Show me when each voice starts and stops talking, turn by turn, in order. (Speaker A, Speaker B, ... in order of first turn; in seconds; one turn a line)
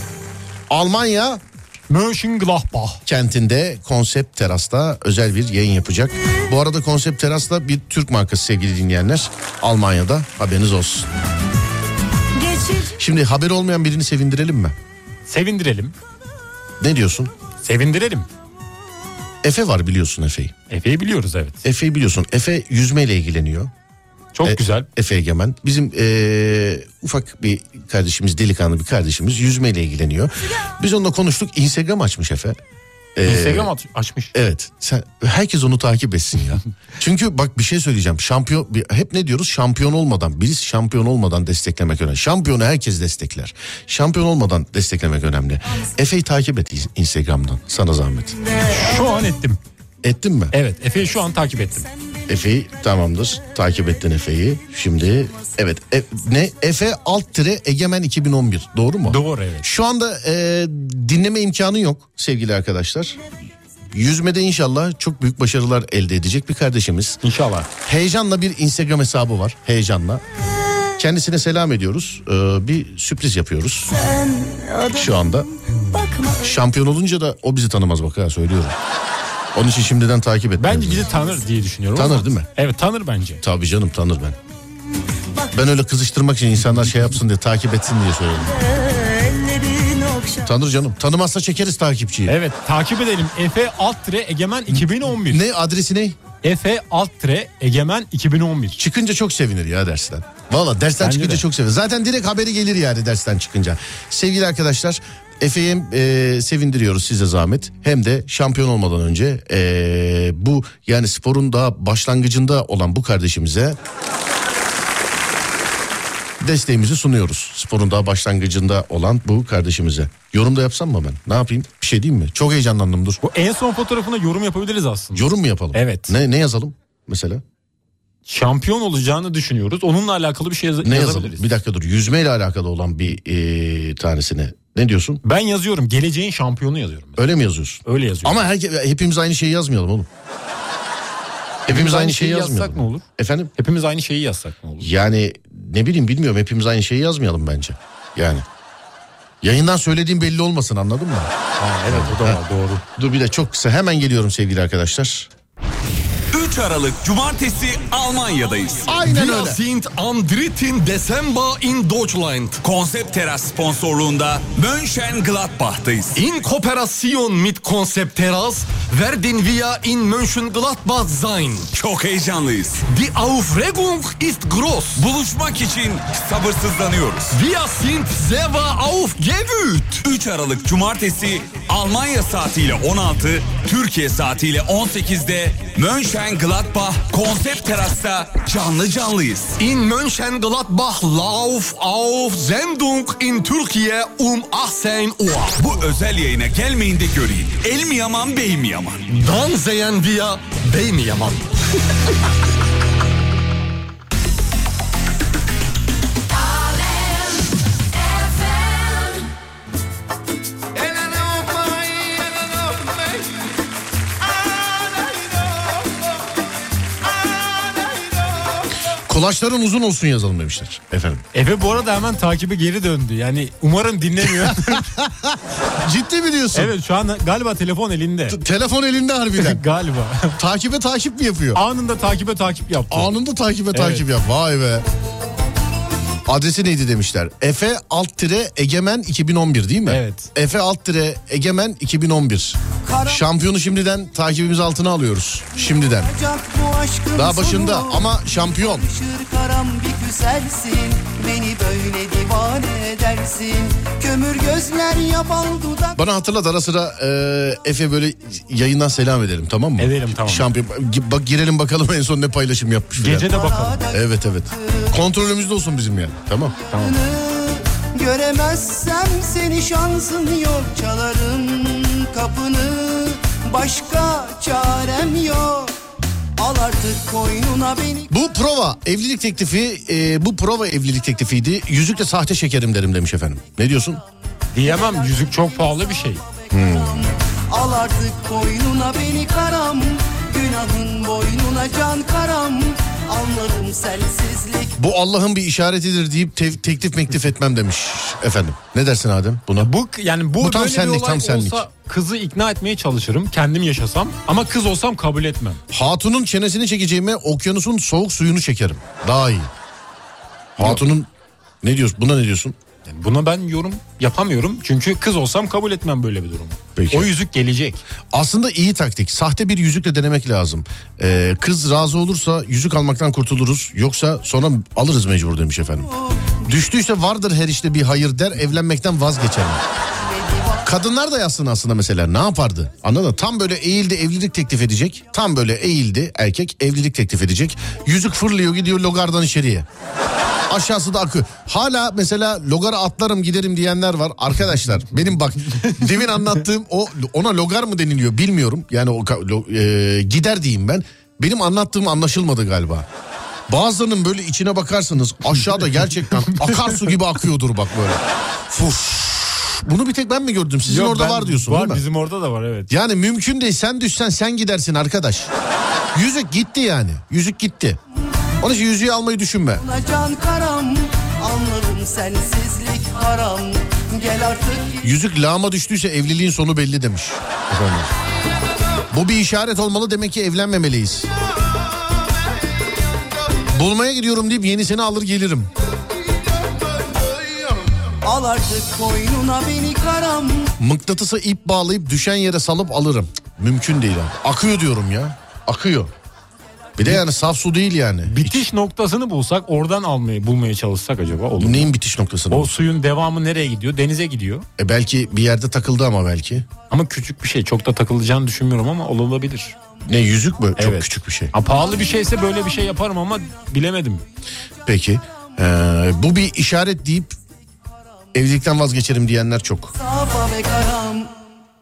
Speaker A: 0.7-1.4
Speaker B: 1.9-3.0
Speaker A: 3.1-11.1
Speaker C: 12.4-12.9
Speaker A: 12.9-14.8
Speaker B: 15.3-15.9
Speaker A: 16.8-17.3
Speaker B: 17.6-18.3
Speaker A: 19.4-20.5
Speaker B: 20.7-21.6
Speaker A: 21.6-23.7
Speaker B: 24.4-24.9
Speaker A: 24.4-32.6
Speaker A: 33.2-33.7
Speaker B: 33.2-34.3
Speaker A: 34.3-48.4
Speaker C: 48.5-49.2
Speaker B: 48.7-49.6
Speaker A: 50.0-50.5
Speaker B: 50.5-51.9
Speaker A: 52.3-63.2
Speaker B: 59.1-59.7
Speaker A: 63.9-67.2
Speaker B: 67.2-67.7
Speaker A: 67.8-70.2
Speaker A: 71.0-73.9
Speaker C: 73.9-76.6
Speaker A: 74.9-75.5
Speaker A: 76.4-78.8
Speaker A: 79.5-81.1
Speaker B: 80.6-83.4
Speaker A: 82.0-82.5
Speaker A: 83.4-84.4
Speaker A: 85.5-88.6
Speaker C: 88.4-90.5
Speaker A: 90.5-92.3
Speaker B: 92.3-95.4
Speaker A: 94.7-96.2
Speaker B: 96.4-98.8
Speaker A: 98.8-113.8
Speaker B: 101.0-101.4
Speaker A: 116.4-123.2
Speaker B: 123.2-126.2
Speaker A: 125.1-127.4
Speaker B: 128.3-131.5
Speaker A: 130.8-135.2
Speaker B: 135.2-137.3
Speaker A: 137.2-140.1
Speaker B: 137.8-138.5
Speaker A: 141.7-143.5
Speaker B: 141.7-143.0
Speaker B: 143.6-144.9
Speaker A: 144.8-148.4
Speaker A: 149.4-151.3
Speaker B: 151.6-152.8
Speaker A: 151.9-152.4
Speaker A: 153.0-155.3
Speaker D: 156.3-158.9
Speaker A: 158.9-159.6
Speaker E: 159.0-162.6
Speaker D: 162.6-166.1
Speaker E: 166.1-171.7
Speaker D: 171.7-172.8
Speaker E: 172.9-175.1
Speaker D: 175.0-177.3
Speaker E: 177.3-180.0
Speaker D: 180.0-189.6
Speaker E: 189.6-195.7
Speaker D: 195.6-199.1
Speaker E: 199.1-201.5
Speaker A: 218.9-221.2
Speaker B: 221.3-224.9
Speaker A: 224.2-226.7
Speaker B: 226.6-228.4
Speaker A: 228.3-229.6
Speaker B: 229.4-230.4
Speaker A: 230.4-231.6
Speaker B: 231.5-233.1
Speaker A: 232.9-234.8
Speaker B: 233.7-234.1
Speaker A: 236.3-246.1
Speaker B: 239.9-240.3
Speaker F: 242.9-243.2
Speaker F: 245.8-255.9
Speaker A: 247.1-248.9
Speaker A: 256.0-266.6
Speaker B: 259.8-260.5
Speaker B: 263.0-263.9
Speaker F: 263.3-264.0
Speaker F: 266.7-275.7
Speaker B: 266.7-267.0
Speaker F: 276.4-278.1
Speaker A: 278.1-284.0
Speaker B: 284.5-286.2
Speaker A: 286.5-287.1
Speaker F: 287.5-294.7
Speaker A: 294.8-299.7
Speaker B: 299.6-305.6
Speaker A: 300.4-301.6
Speaker A: 305.7-309.5
Speaker B: 310.6-310.8
Speaker A: 310.6-311.1
Speaker A: 311.6-312.6
Speaker B: 312.9-317.8
Speaker A: 316.8-317.1
Speaker A: 318.1-329.6
Speaker F: 330.3-330.5
Speaker A: 330.6-339.7
Speaker A: 340.5-352.9
Speaker A: 353.5-361.8
Speaker B: 360.7-362.7
Speaker A: 362.7-365.3
Speaker A: 365.9-367.8
Speaker A: 368.4-369.6
Speaker F: 369.7-374.8
Speaker A: 374.8-377.9
Speaker A: 378.9-381.1
Speaker A: 383.5-385.5
Speaker F: 388.1-390.4
Speaker A: 390.6-395.9
Speaker A: 396.8-398.4
Speaker B: 398.1-401.7
Speaker A: 401.4-402.6
Speaker B: 402.3-404.5
Speaker A: 404.6-406.5
Speaker B: 406.7-409.6
Speaker A: 409.9-411.3
Speaker B: 410.6-414.1
Speaker A: 414.7-417.2
Speaker A: 418.1-419.7
Speaker F: 419.9-421.1